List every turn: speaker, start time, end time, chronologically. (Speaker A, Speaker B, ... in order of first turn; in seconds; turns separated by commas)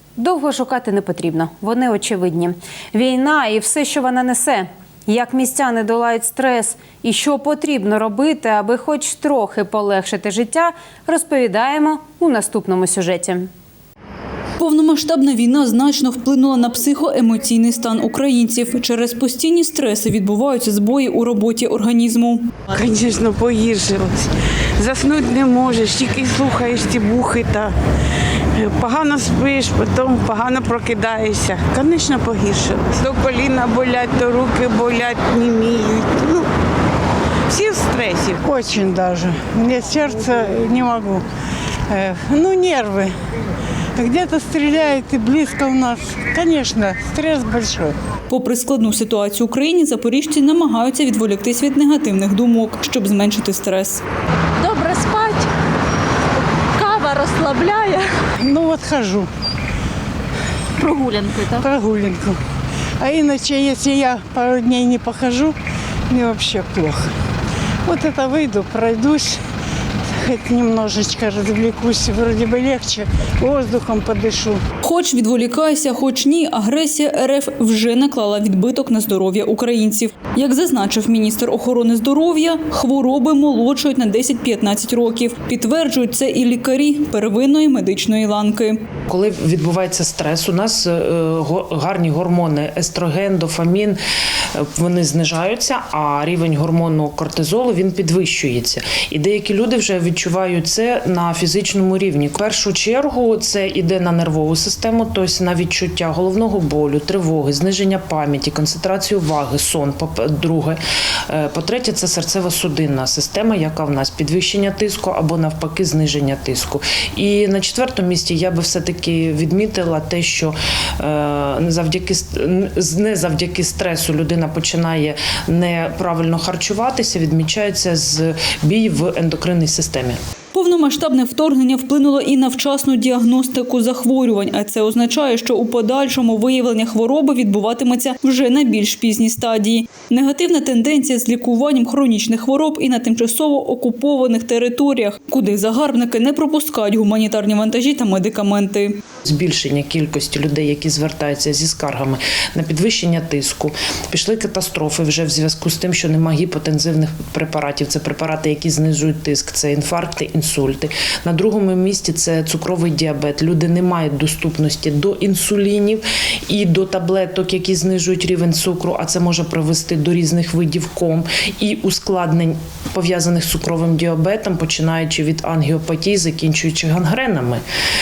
Speaker A: 0.2-13.5, Speaker B: 14.6-22.5, Speaker C: 22.7-27.7, Speaker C: 28.4-36.5, Speaker C: 37.5-38.4, Speaker D: 38.4-41.2, Speaker D: 41.9-43.1, Speaker D: 44.0-48.0, Speaker B: 48.3-54.0, Speaker E: 54.6-55.5, Speaker E: 56.7-58.2, Speaker D: 58.4-59.3, Speaker E: 60.8-61.7, Speaker D: 61.6-62.4, Speaker D: 63.0-65.5, Speaker D: 66.1-67.1, Speaker D: 67.8-69.4, Speaker D: 70.1-74.6, Speaker B: 74.8-88.8, Speaker F: 89.1-94.0, Speaker F: 94.5-130.2, Speaker B: 130.5-149.0, Speaker F: 149.2-177.6